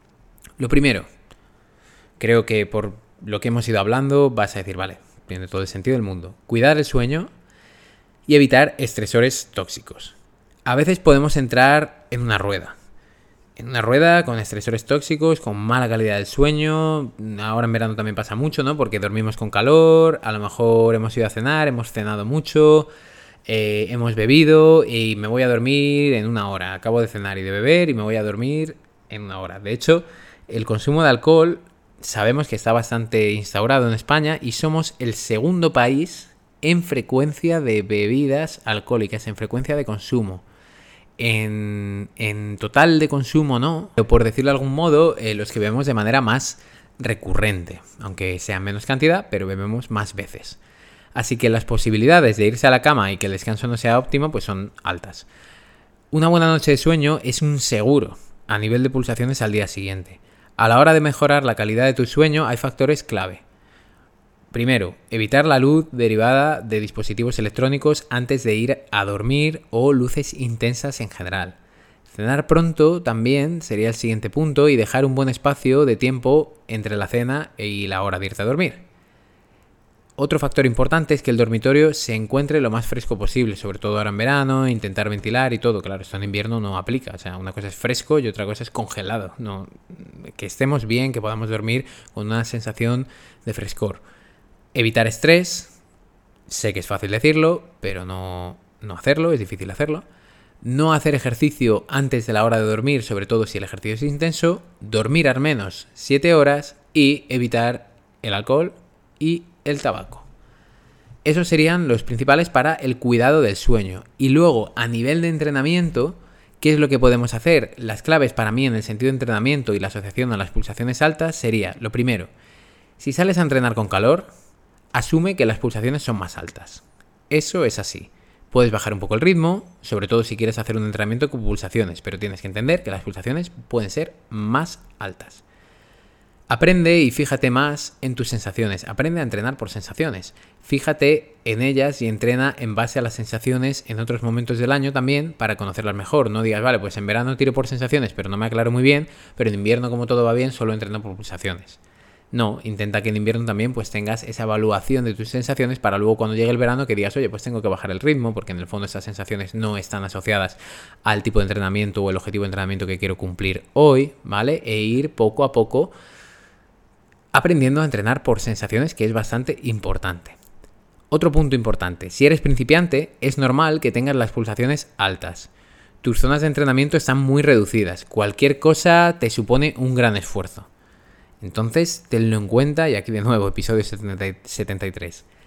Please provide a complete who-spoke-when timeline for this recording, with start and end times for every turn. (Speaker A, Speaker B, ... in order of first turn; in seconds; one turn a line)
Speaker A: 0.6-1.1
Speaker A: 2.2-7.3
Speaker A: 8.3-12.7
Speaker A: 13.6-22.9
Speaker A: 23.4-40.4
Speaker A: 41.2-50.6
Speaker A: 51.1-55.2
Speaker A: 56.1-63.4
Speaker A: 64.5-71.6
Speaker A: 72.1-78.8
Speaker A: 80.2-94.0
Speaker A: 94.7-95.7
Speaker A: 96.5-100.0
Speaker A: 100.6-110.3
Speaker A: 111.2-122.3
Speaker A: 123.0-124.3
Speaker A: 124.9-135.4
Speaker A: 136.5-151.8
Speaker A: 152.3-165.9
Speaker A: 167.3-170.3
Speaker A: 171.1-175.5
Speaker A: 176.0-180.7
Speaker A: 181.4-185.2